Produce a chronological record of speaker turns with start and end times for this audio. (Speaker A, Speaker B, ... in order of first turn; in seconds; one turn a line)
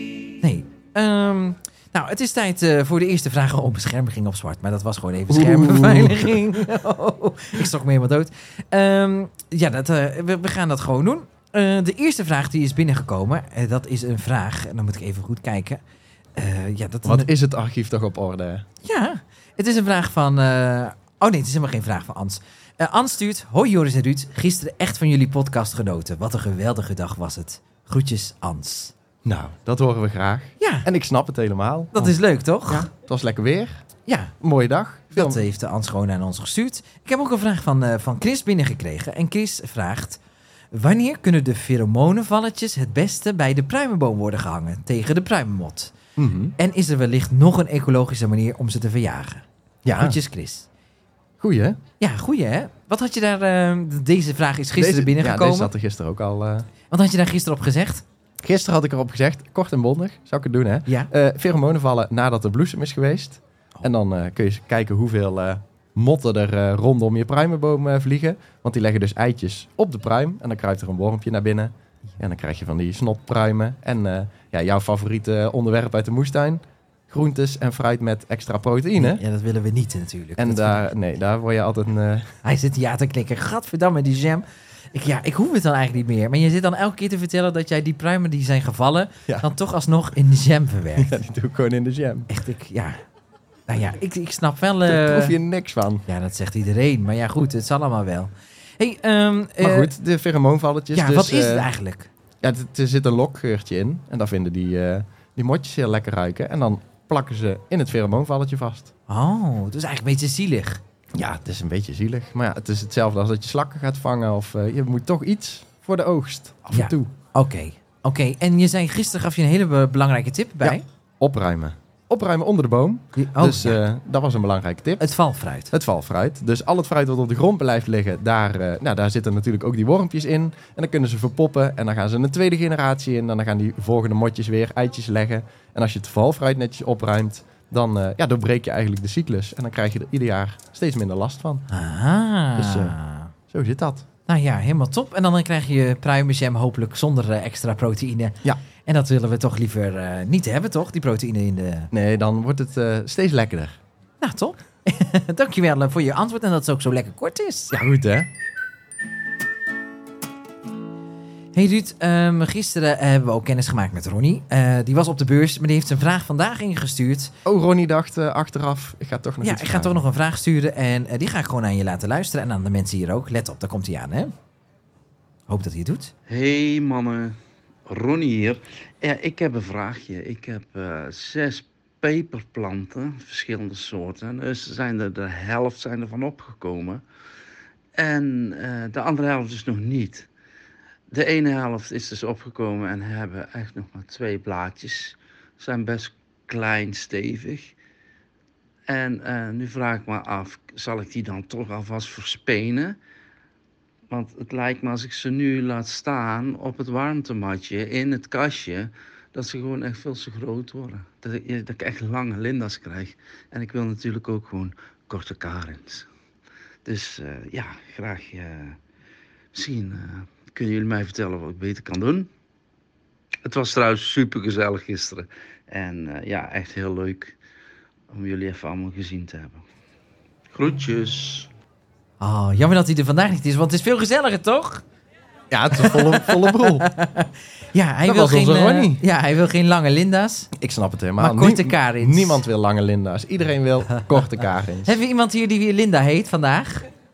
Speaker A: 0.4-15.8
Speaker B: 5.3-6.4
Speaker A: 16.4-17.3
Speaker B: 17.1-18.7
Speaker A: 18.8-28.9
Speaker B: 29.2-32.1
Speaker A: 30.6-30.9
Speaker A: 31.9-32.9
Speaker B: 32.7-33.9
Speaker A: 34.1-34.3
Speaker B: 34.4-35.4
Speaker A: 35.1-40.2
Speaker A: 40.7-45.9
Speaker B: 46.2-46.5
Speaker A: 46.6-49.5
Speaker B: 49.9-50.2
Speaker A: 50.0-50.7
Speaker B: 51.4-51.8
Speaker A: 52.0-55.7
Speaker B: 54.8-56.7
Speaker A: 56.9-58.0
Speaker B: 58.4-79.2
Speaker A: 79.0-80.9
Speaker B: 80.4-82.4
Speaker A: 82.4-91.2
Speaker B: 91.0-92.3
Speaker A: 92.3-93.0
Speaker A: 93.7-95.4
Speaker B: 94.9-96.0
Speaker A: 96.1-99.9
Speaker B: 99.6-101.7
Speaker A: 100.9-102.1
Speaker B: 102.4-108.9
Speaker A: 109.1-110.8
Speaker B: 111.1-117.1
Speaker A: 116.7-120.8
Speaker B: 120.6-125.0
Speaker A: 123.2-123.8
Speaker A: 125.0-125.7
Speaker B: 125.7-141.7
Speaker A: 141.7-143.3
Speaker B: 142.6-143.0
Speaker B: 143.5-144.1
Speaker A: 144.3-151.9
Speaker B: 151.9-153.8
Speaker A: 154.2-157.8
Speaker B: 157.7-158.3
Speaker A: 161.5-167.3
Speaker B: 167.4-170.1
Speaker A: 169.4-174.3
Speaker A: 175.5-176.1
Speaker C: 176.3-187.0
Speaker C: 188.0-190.3
Speaker C: 191.1-197.8
Speaker C: 198.9-203.0
Speaker C: 204.1-216.1
Speaker C: 216.8-218.8
Speaker C: 219.5-222.3
Speaker C: 223.4-227.4
Speaker C: 228.1-229.7
Speaker C: 230.5-231.5
Speaker A: 232.2-234.8
Speaker B: 235.5-236.9
Speaker A: 235.8-240.5
Speaker B: 238.0-239.0
Speaker B: 240.5-245.0
Speaker A: 241.2-242.4
Speaker A: 244.8-246.9